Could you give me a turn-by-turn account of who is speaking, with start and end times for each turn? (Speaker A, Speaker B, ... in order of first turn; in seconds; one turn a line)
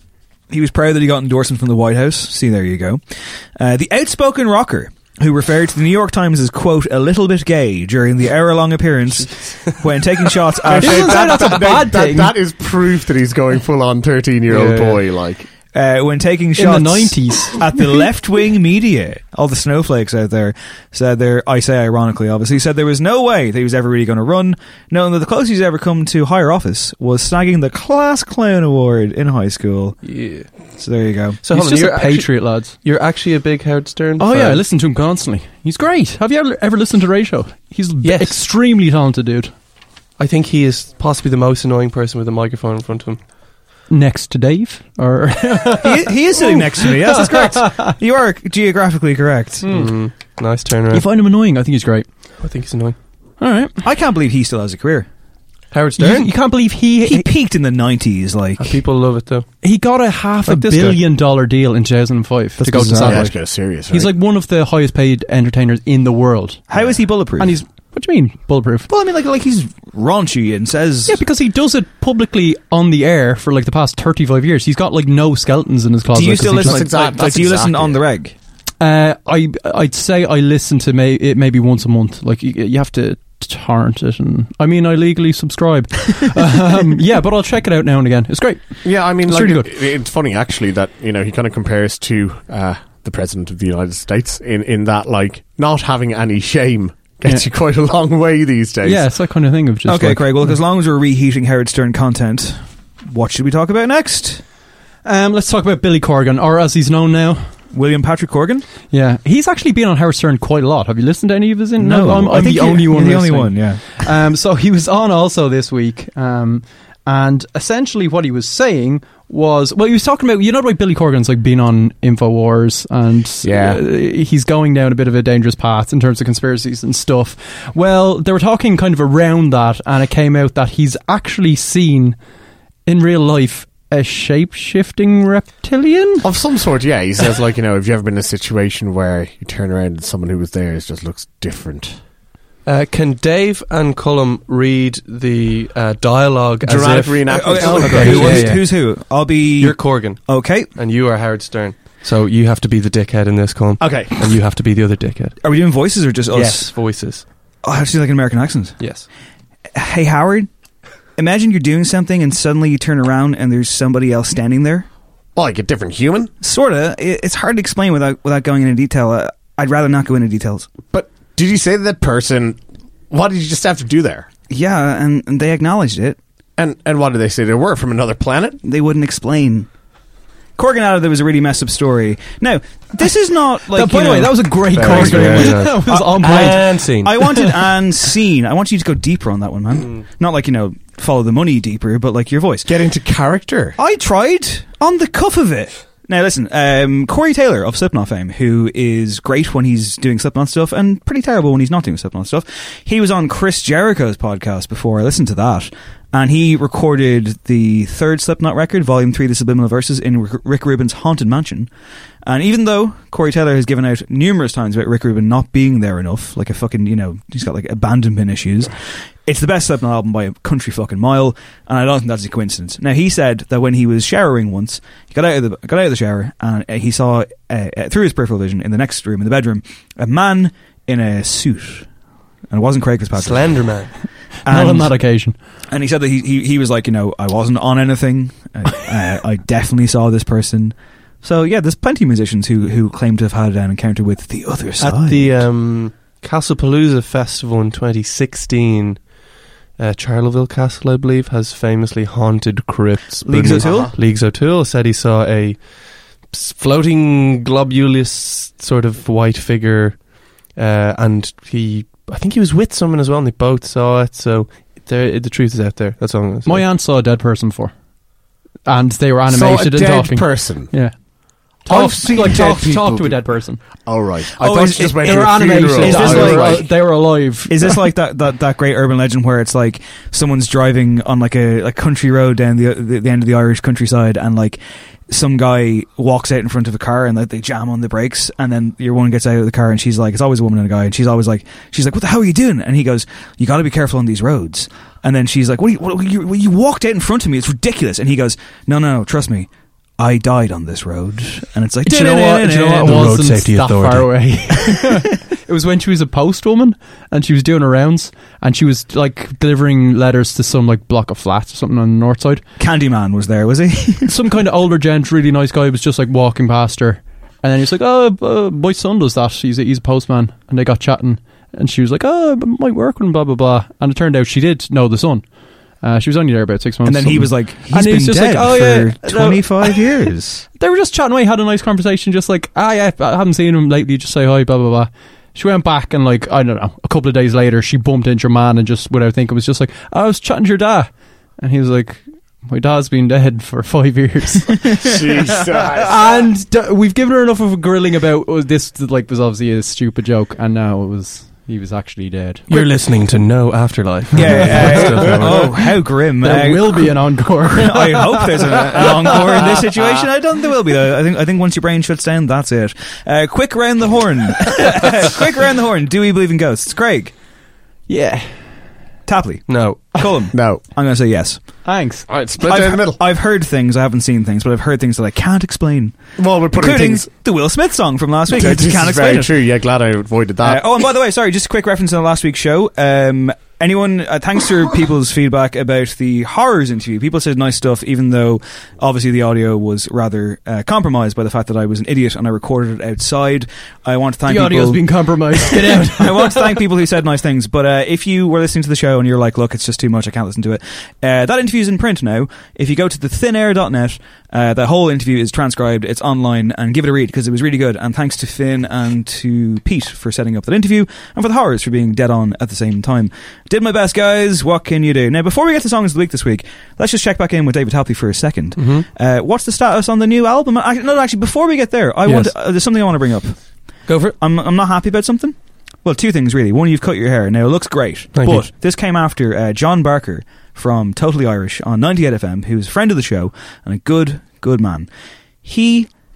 Speaker A: 0.5-3.0
Speaker A: 3.5-11.7
Speaker B: 9.2-9.7
Speaker C: 10.6-15.5
Speaker D: 10.8-12.4
Speaker B: 14.5-15.0
Speaker A: 15.7-30.0
Speaker D: 16.6-18.0
Speaker B: 30.0-30.5
Speaker A: 30.8-31.4
Speaker B: 31.4-34.6
Speaker D: 31.5-32.7
Speaker D: 34.2-39.5
Speaker B: 38.0-38.4
Speaker B: 40.2-43.2
Speaker D: 43.9-47.9
Speaker A: 45.8-49.7
Speaker D: 49.6-50.0
Speaker B: 49.7-51.0
Speaker D: 50.9-52.1
Speaker B: 52.4-53.0
Speaker D: 53.4-53.8
Speaker A: 53.8-55.1
Speaker B: 55.7-56.3
Speaker D: 56.0-57.3
Speaker A: 57.0-58.8
Speaker B: 58.6-59.5
Speaker D: 59.6-68.9
Speaker B: 60.5-61.0
Speaker A: 62.6-63.3
Speaker C: 63.0-64.1
Speaker A: 66.7-67.6
Speaker A: 68.9-71.2
Speaker D: 71.0-76.9
Speaker A: 76.1-78.3
Speaker C: 76.5-78.1
Speaker D: 78.8-89.7
Speaker C: 88.8-99.1
Speaker D: 98.8-100.6
Speaker A: 99.9-104.4
Speaker D: 105.0-107.5
Speaker A: 107.7-108.7
Speaker D: 108.9-132.2
Speaker A: 111.8-114.0
Speaker C: 123.4-123.8
Speaker D: 132.9-136.3
Speaker C: 136.2-142.0
Speaker B: 142.7-148.7
Speaker C: 146.6-148.4
Speaker A: 147.3-150.7
Speaker D: 147.9-148.7
Speaker B: 149.6-155.4
Speaker C: 153.8-154.2
Speaker A: 155.4-156.7
Speaker B: 156.3-157.2
Speaker A: 157.6-158.8
Speaker B: 158.8-159.1
Speaker A: 159.7-160.5
Speaker A: 161.2-164.9
Speaker C: 165.4-166.3
Speaker A: 166.4-170.7
Speaker C: 170.9-172.6
Speaker C: 173.1-174.3
Speaker A: 174.5-176.2
Speaker C: 176.6-178.6
Speaker A: 178.6-179.7
Speaker A: 180.6-192.7
Speaker D: 183.7-187.5
Speaker B: 184.7-187.1
Speaker C: 184.8-185.5
Speaker C: 192.7-193.8
Speaker A: 193.8-211.7
Speaker A: 212.2-231.9
Speaker A: 232.5-233.7
Speaker B: 233.2-233.9
Speaker A: 234.4-234.9
Speaker D: 234.4-235.3
Speaker A: 235.7-245.4
Speaker B: 244.8-249.1
Speaker B: 249.8-266.6
Speaker A: 253.2-253.9
Speaker C: 253.5-253.9
Speaker D: 266.4-267.7
Speaker D: 268.6-277.9
Speaker C: 269.3-270.7
Speaker C: 271.6-276.7
Speaker A: 272.2-272.5
Speaker A: 275.1-303.1
Speaker D: 301.8-312.4
Speaker B: 302.6-304.3
Speaker A: 312.6-314.1
Speaker D: 314.1-344.9
Speaker A: 326.8-330.4
Speaker C: 344.9-346.2
Speaker D: 345.7-352.6
Speaker B: 352.5-355.6
Speaker A: 354.1-367.1
Speaker D: 354.2-355.6
Speaker D: 356.2-359.6
Speaker D: 367.9-368.4
Speaker A: 369.1-371.6
Speaker B: 369.5-370.0
Speaker C: 370.3-370.6
Speaker D: 371.6-372.1
Speaker C: 372.1-373.0
Speaker A: 372.4-379.3
Speaker C: 376.2-377.1
Speaker C: 378.3-380.6
Speaker A: 380.4-434.9
Speaker D: 394.3-396.6
Speaker B: 418.6-418.9
Speaker B: 422.1-422.3
Speaker B: 423.9-424.1
Speaker B: 428.1-428.4
Speaker A: 435.4-435.9